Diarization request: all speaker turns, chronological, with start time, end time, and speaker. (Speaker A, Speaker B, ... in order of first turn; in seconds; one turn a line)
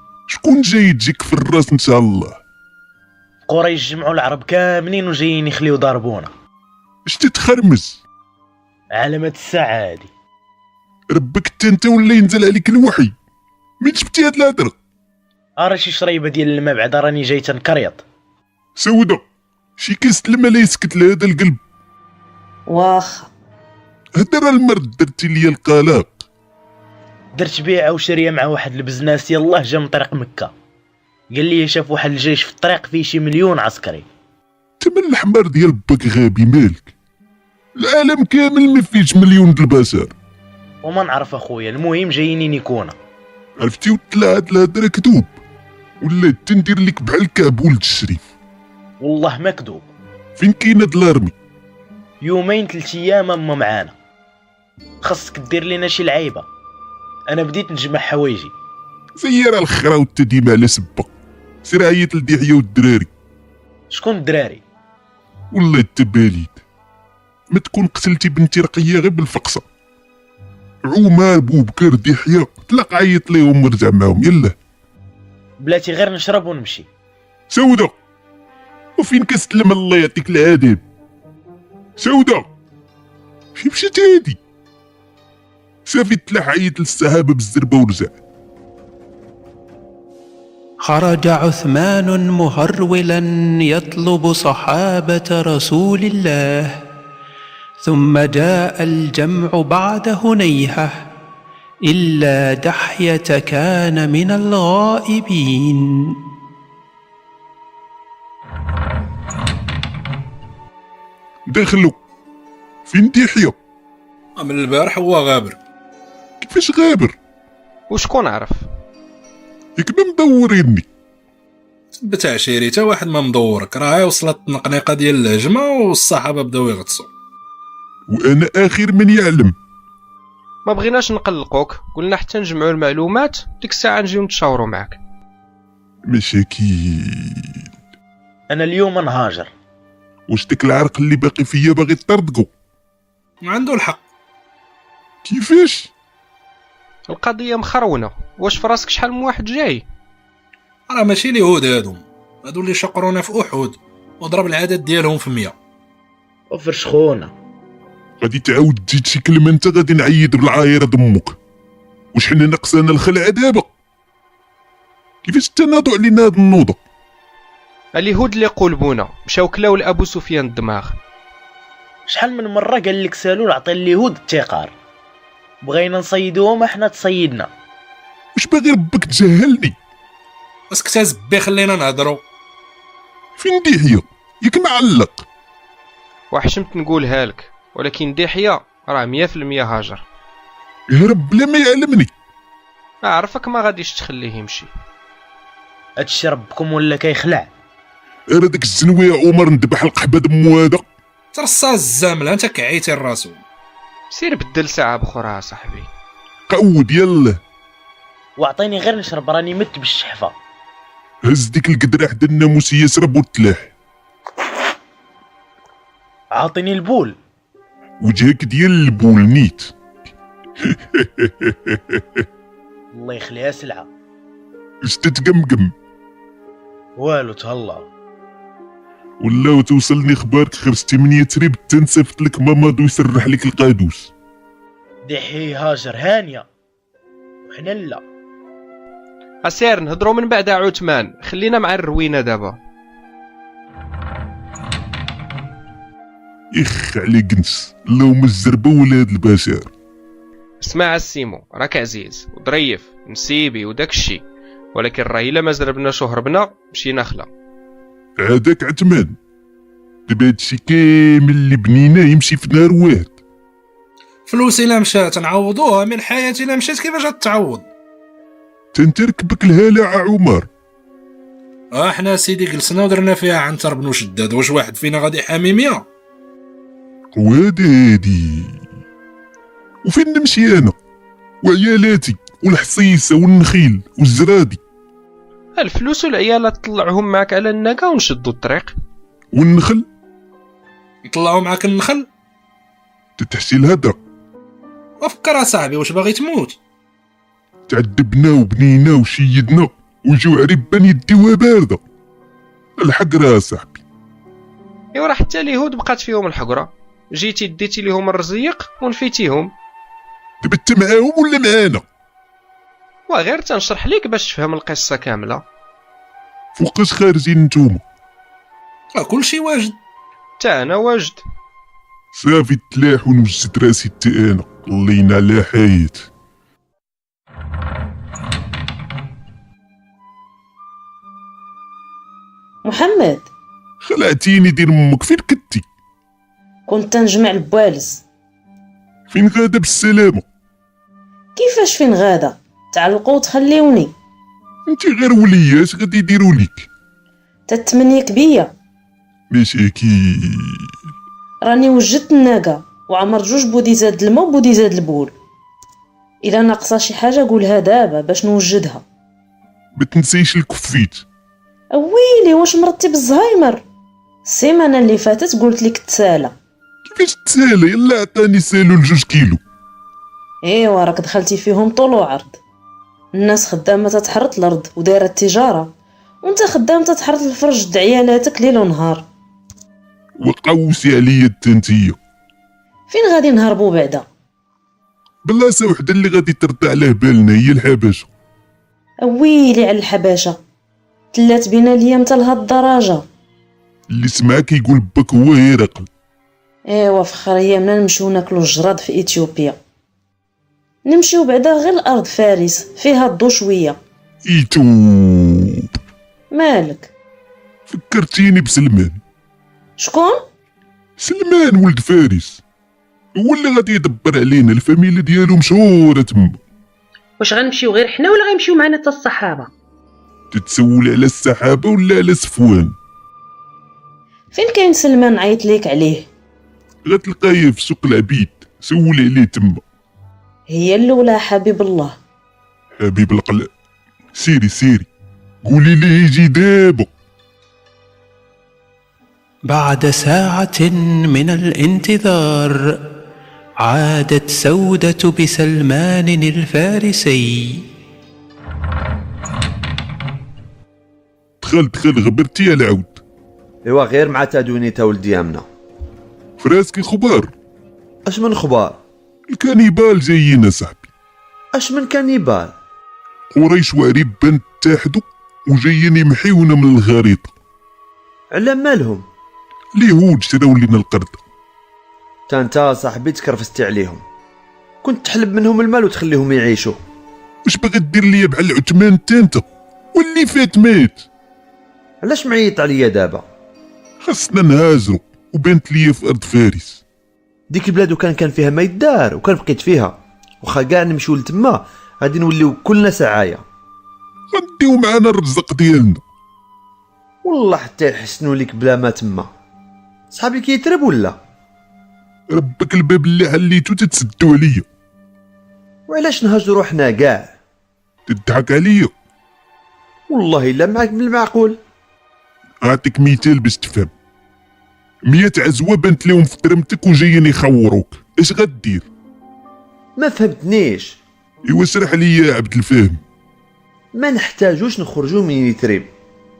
Speaker A: 0.3-2.4
Speaker B: 3.5-6.3
Speaker A: 7.0-8.0
Speaker B: 8.9-10.1
Speaker A: 11.1-13.1
Speaker A: 13.8-14.7
Speaker B: 15.6-18.0
Speaker A: 18.8-19.2
Speaker A: 19.8-21.6
Speaker C: 22.7-23.3
Speaker A: 24.2-26.1
Speaker B: 27.4-30.5
Speaker B: 31.3-34.1
Speaker A: 34.8-36.9
Speaker A: 37.8-40.1
Speaker B: 40.8-42.9
Speaker A: 43.6-45.3
Speaker A: 46.0-48.2
Speaker B: 49.0-49.9
Speaker A: 50.4-51.3
Speaker B: 52.2-53.9
Speaker B: 55.0-56.5
Speaker B: 57.3-58.5
Speaker A: 59.2-61.1
Speaker A: 61.6-63.1
Speaker B: 63.9-64.6
Speaker A: 65.5-66.6
Speaker A: 67.5-69.6
Speaker A: 70.9-74.5
Speaker B: 75.6-76.9
Speaker A: 77.5-77.9
Speaker A: 79.0-80.8
Speaker A: 82.0-82.4
Speaker A: 83.5-84.4
Speaker A: 85.8-88.1
Speaker D: 90.8-96.8
Speaker D: 97.8-101.0
Speaker D: 101.9-106.1
Speaker A: 111.5-112.0
Speaker A: 112.9-113.5
Speaker E: 114.4-115.6
Speaker A: 116.4-117.1
Speaker F: 117.9-118.6
Speaker A: 119.8-120.8
Speaker E: 122.0-127.1
Speaker A: 128.1-129.5
Speaker F: 130.7-135.0
Speaker A: 136.1-137.6
Speaker B: 138.5-139.5
Speaker A: 140.3-142.5
Speaker E: 143.4-144.0
Speaker A: 145.2-145.9
Speaker F: 147.1-149.8
Speaker E: 150.9-155.5
Speaker B: 156.5-157.3
Speaker A: 158.2-161.3
Speaker A: 162.1-163.7
Speaker A: 165.2-166.8
Speaker F: 167.9-170.9
Speaker B: 172.1-174.7
Speaker B: 175.6-177.5
Speaker A: 178.3-179.8
Speaker E: 180.7-182.2
Speaker A: 183.4-185.2
Speaker F: 186.3-190.0
Speaker A: 190.9-192.1
Speaker F: 193.0-194.7
Speaker B: 196.0-197.5
Speaker A: 198.3-200.8
Speaker E: 201.3-203.4
Speaker F: 204.1-205.9
Speaker A: 206.5-207.4
Speaker B: 208.4-210.3
Speaker A: 211.2-213.7
Speaker B: 216.3-217.1
Speaker A: 218.0-219.7
Speaker A: 220.6-222.2
Speaker B: 222.9-223.9
Speaker A: 224.8-225.7
Speaker B: 227.0-227.9
Speaker A: 229.2-234.1
Speaker B: 235.1-236.4
Speaker B: 237.5-238.0
Speaker F: 239.4-242.6
Speaker A: 246.5-249.7
Speaker F: 250.6-254.2
Speaker F: 254.7-257.3
Speaker A: 258.2-259.1
Speaker A: 260.1-263.1
Speaker E: 264.3-267.6
Speaker A: 268.7-270.5
Speaker E: 271.7-275.9
Speaker A: 277.1-278.6
Speaker A: 279.8-280.7
Speaker A: 281.4-284.6
Speaker F: 285.6-288.7
Speaker A: 289.3-289.9
Speaker E: 291.0-292.1
Speaker A: 293.2-294.0
Speaker E: 295.0-296.6
Speaker A: 297.7-301.8
Speaker A: 302.8-303.8
Speaker F: 304.9-309.5
Speaker A: 310.4-311.8
Speaker F: 313.1-315.4
Speaker A: 316.6-317.8
Speaker E: 318.9-319.8
Speaker F: 320.4-321.2
Speaker A: 322.1-326.1
Speaker C: 332.6-333.3
Speaker A: 333.8-335.6
Speaker C: 336.7-338.0
Speaker A: 339.1-340.2
Speaker C: 341.4-343.9
Speaker A: 344.6-346.7
Speaker C: 347.5-348.5
Speaker A: 349.3-350.7
Speaker C: 351.4-355.1
Speaker C: 356.2-358.8
Speaker A: 359.8-361.0
Speaker C: 361.7-363.6
Speaker C: 364.2-366.3
Speaker A: 366.9-369.4
Speaker C: 370.4-372.4
Speaker C: 373.1-379.1
Speaker A: 380.2-382.0
Speaker C: 382.9-384.0
Speaker A: 385.2-388.1
Speaker C: 389.0-390.4
Speaker C: 391.1-393.1
Speaker A: 393.9-395.9
Speaker C: 396.7-399.6
Speaker C: 400.9-403.8
Speaker A: 404.2-405.8
Speaker C: 406.3-406.9
Speaker A: 407.7-409.0
Speaker C: 409.8-410.2
Speaker A: 411.0-412.4
Speaker A: 413.1-416.4
Speaker G: 417.2-419.5
Speaker A: 420.3-422.7
Speaker C: 424.3-426.1
Speaker A: 426.9-429.6
Speaker C: 430.5-432.0
Speaker A: 432.8-433.5
Speaker A: 434.1-434.9
Speaker A: 435.4-436.9
Speaker D: 439.5-442.6
Speaker D: 443.6-447.6
Speaker A: 451.4-453.0
Speaker H: 453.6-455.4
Speaker A: 456.4-457.3
Speaker H: 458.1-458.8
Speaker A: 459.3-460.8
Speaker H: 461.5-462.5
Speaker A: 463.3-467.3
Speaker H: 468.3-469.1
Speaker A: 469.8-471.2
Speaker H: 472.3-474.0
Speaker H: 474.8-476.8
Speaker A: 477.4-481.0
Speaker H: 482.0-483.2
Speaker A: 484.0-486.8
Speaker H: 487.5-493.4
Speaker A: 494.3-496.0
Speaker H: 497.2-499.3
Speaker H: 500.1-501.2
Speaker A: 502.3-504.6
Speaker H: 505.9-507.3
Speaker A: 508.1-508.9
Speaker H: 510.1-511.6
Speaker A: 512.6-513.9
Speaker A: 515.1-518.9
Speaker H: 520.0-521.0
Speaker A: 521.5-523.0
Speaker H: 523.9-525.9